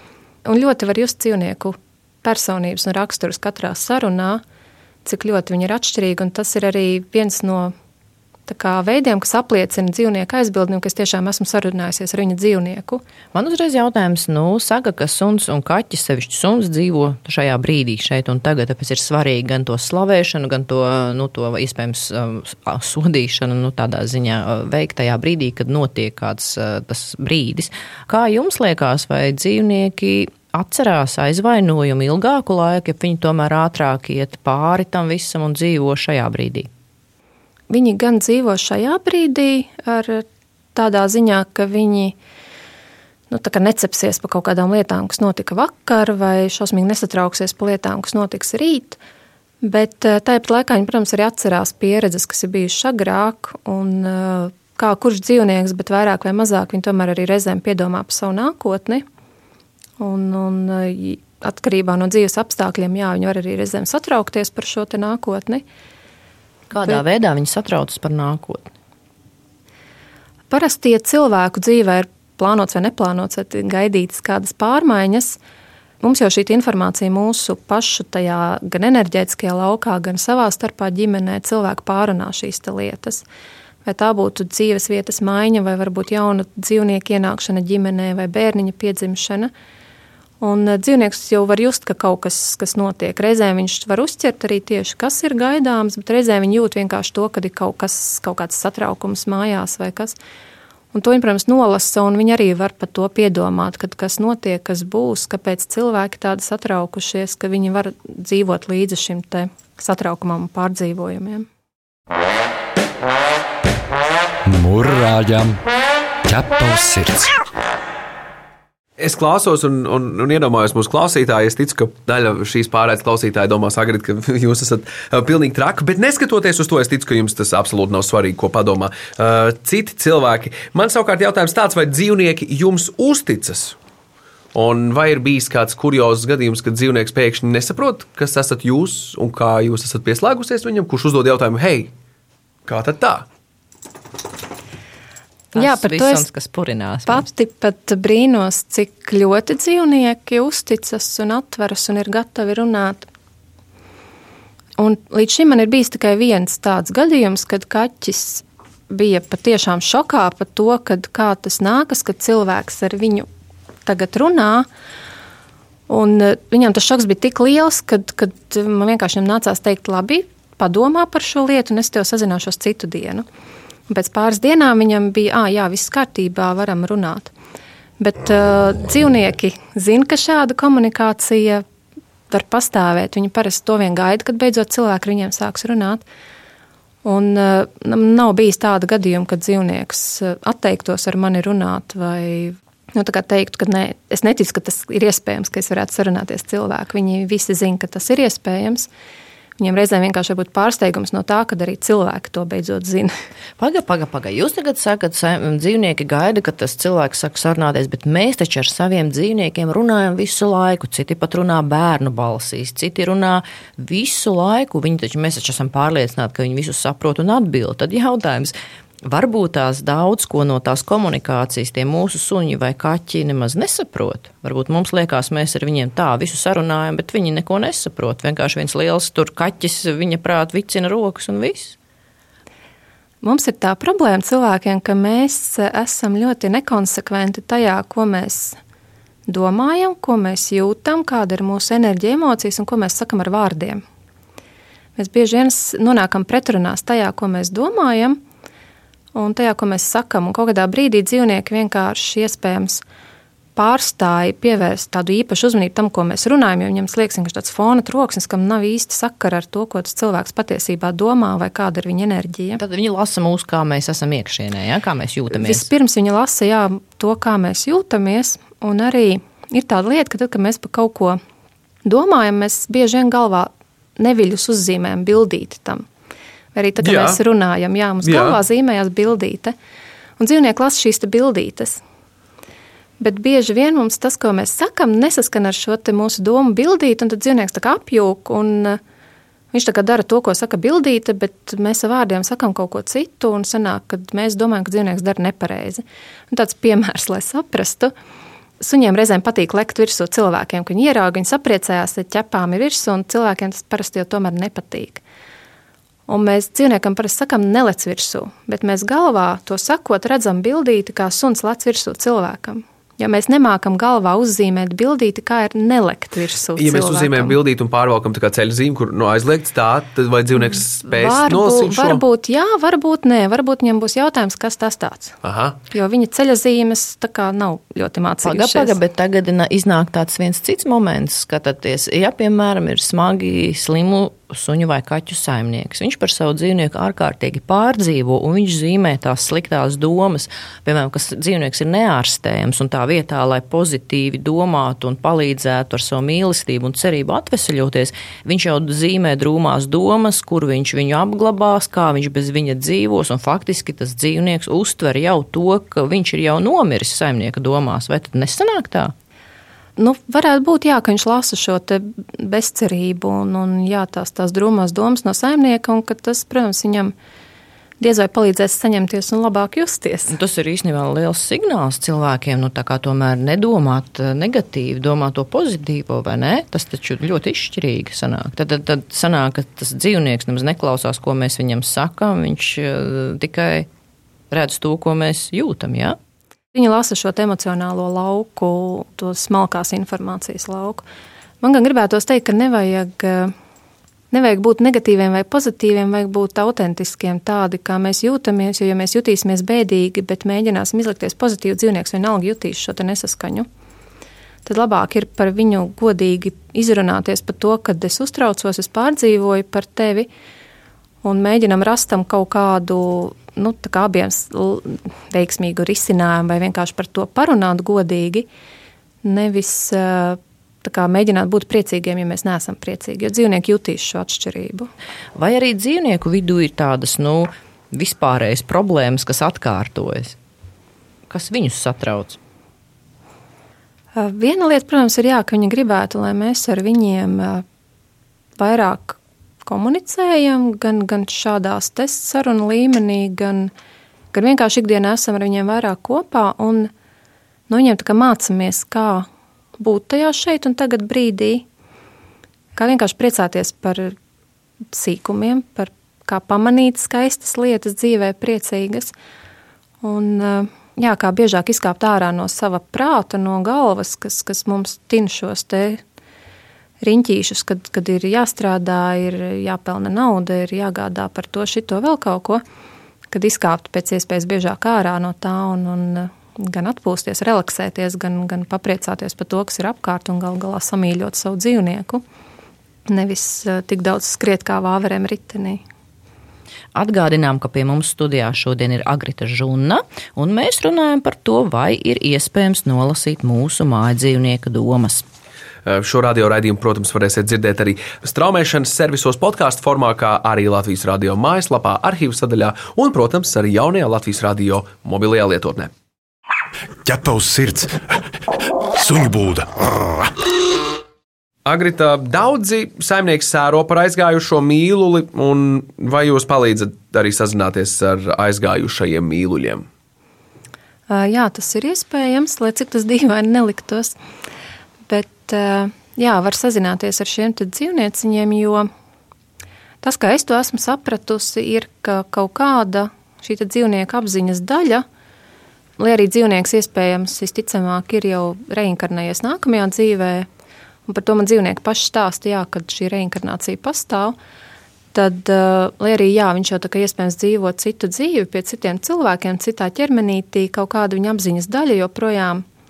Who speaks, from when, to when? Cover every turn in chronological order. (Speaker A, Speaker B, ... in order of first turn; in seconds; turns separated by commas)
Speaker A: 0.4-4.4, Speaker A: 5.0-7.7, Speaker A: 8.5-13.0, Speaker B: 13.3-36.7, Speaker A: 37.7-42.1, Speaker A: 43.3-49.0, Speaker A: 49.6-59.0, Speaker A: 60.0-65.6, Speaker B: 66.7-68.7, Speaker A: 70.5-75.4, Speaker A: 76.0-83.2, Speaker A: 83.8-89.5, Speaker A: 90.4-100.2, Speaker A: 100.9-111.5, Speaker C: 114.5-115.6, Speaker C: 116.2-117.3, Speaker D: 119.0-133.8, Speaker D: 134.5-141.9, Speaker D: 142.7-143.2, Speaker A: 145.5-146.3, Speaker B: 145.5-147.2, Speaker A: 147.1-153.1, Speaker A: 154.8-163.3, Speaker A: 163.8-164.7, Speaker A: 165.9-173.2, Speaker A: 173.9-177.3, Speaker A: 178.0-181.6, Speaker A: 182.3-186.0, Speaker A: 187.0-198.9, Speaker A: 199.6-203.1, Speaker B: 203.6-231.8, Speaker A: 233.2-238.6, Speaker A: 239.3-243.8, Speaker A: 245.0-248.2, Speaker A: 249.1-252.8, Speaker A: 253.6-262.6, Speaker B: 262.6-265.6, Speaker A: 265.3-271.2, Speaker A: 271.8-275.9, Speaker A: 276.5-279.5, Speaker D: 276.8-277.2, Speaker D: 278.0-278.4, Speaker A: 280.2-281.8, Speaker A: 283.0-288.8, Speaker A: 289.5-297.9, Speaker A: 298.6-305.0, Speaker A: 306.1-317.4, Speaker D: 316.6-322.0, Speaker A: 320.5-325.1, Speaker D: 325.2-325.6, Speaker A: 325.7-328.7, Speaker B: 328.2-358.9, Speaker A: 359.8-366.9, Speaker A: 367.8-370.1, Speaker B: 370.1-383.7, Speaker B: 384.3-385.9, Speaker A: 386.5-390.8, Speaker A: 391.4-393.3, Speaker A: 394.1-403.5, Speaker A: 404.4-410.1, Speaker A: 411.0-418.3, Speaker A: 419.0-424.7, Speaker B: 425.1-430.1, Speaker B: 431.1-432.2, Speaker A: 433.9-437.4, Speaker A: 438.4-443.5, Speaker A: 444.1-446.7, Speaker A: 447.5-449.1, Speaker A: 449.6-451.4, Speaker A: 452.5-453.9, Speaker A: 454.7-458.9, Speaker A: 459.8-465.8, Speaker A: 466.8-472.4, Speaker A: 473.1-482.0, Speaker A: 482.9-485.6, Speaker B: 486.7-495.0, Speaker D: 495.6-505.7, Speaker E: 506.8-507.9, Speaker E: 508.7-510.2, Speaker D: 511.4-519.6, Speaker A: 520.9-524.0, Speaker A: 524.9-528.7, Speaker A: 529.8-534.8, Speaker A: 535.8-540.3, Speaker A: 540.9-544.1, Speaker A: 544.9-552.4